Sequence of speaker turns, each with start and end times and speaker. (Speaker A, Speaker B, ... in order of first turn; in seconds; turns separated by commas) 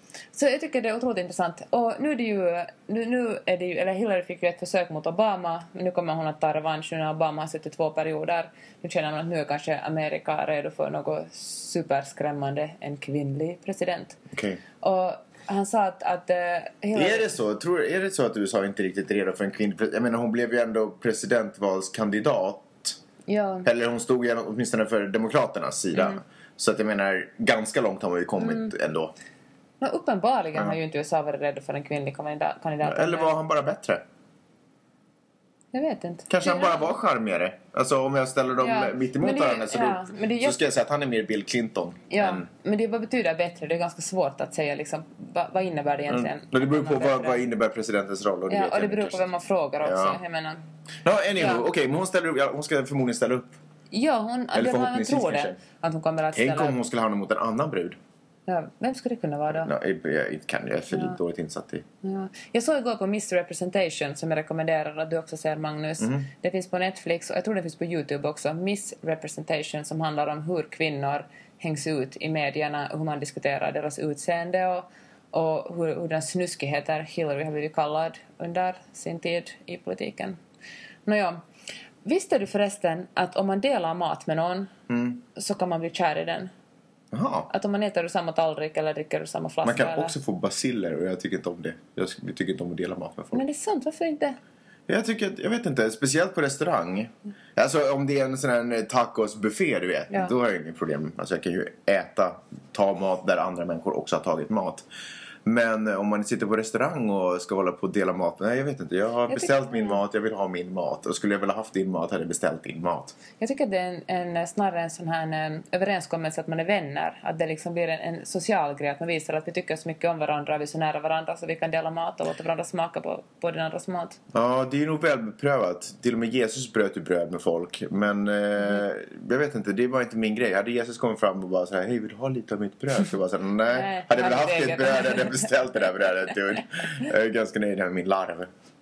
Speaker A: 0.3-14.2, Speaker B: 14.3-14.6, Speaker A: 14.8-17.3, Speaker B: 16.9-23.0, Speaker A: 23.3-23.7, Speaker B: 23.6-29.1, Speaker A: 25.9-26.2, Speaker A: 28.4-28.7, Speaker A: 29.8-33.3, Speaker B: 32.8-34.0, Speaker A: 35.7-36.8, Speaker B: 36.3-42.4, Speaker A: 38.6-40.6, Speaker A: 42.1-47.4, Speaker B: 46.1-49.3, Speaker A: 48.5-50.6, Speaker B: 49.8-50.2, Speaker B: 51.0-53.6, Speaker A: 51.4-51.6, Speaker A: 53.9-56.8, Speaker B: 54.5-55.6, Speaker B: 56.3-58.0, Speaker A: 58.5-59.7, Speaker B: 59.6-61.8, Speaker A: 60.9-61.2, Speaker A: 62.0-80.4, Speaker B: 66.0-66.2, Speaker A: 81.0-81.4, Speaker A: 82.0-84.7, Speaker B: 84.9-85.2, Speaker A: 85.3-86.5, Speaker B: 87.1-87.5, Speaker A: 87.5-90.1, Speaker B: 89.6-93.4, Speaker A: 93.3-94.4, Speaker B: 94.9-104.8, Speaker B: 105.4-113.2, Speaker A: 109.3-110.0, Speaker A: 113.4-124.2, Speaker B: 124.3-138.5, Speaker A: 133.7-136.1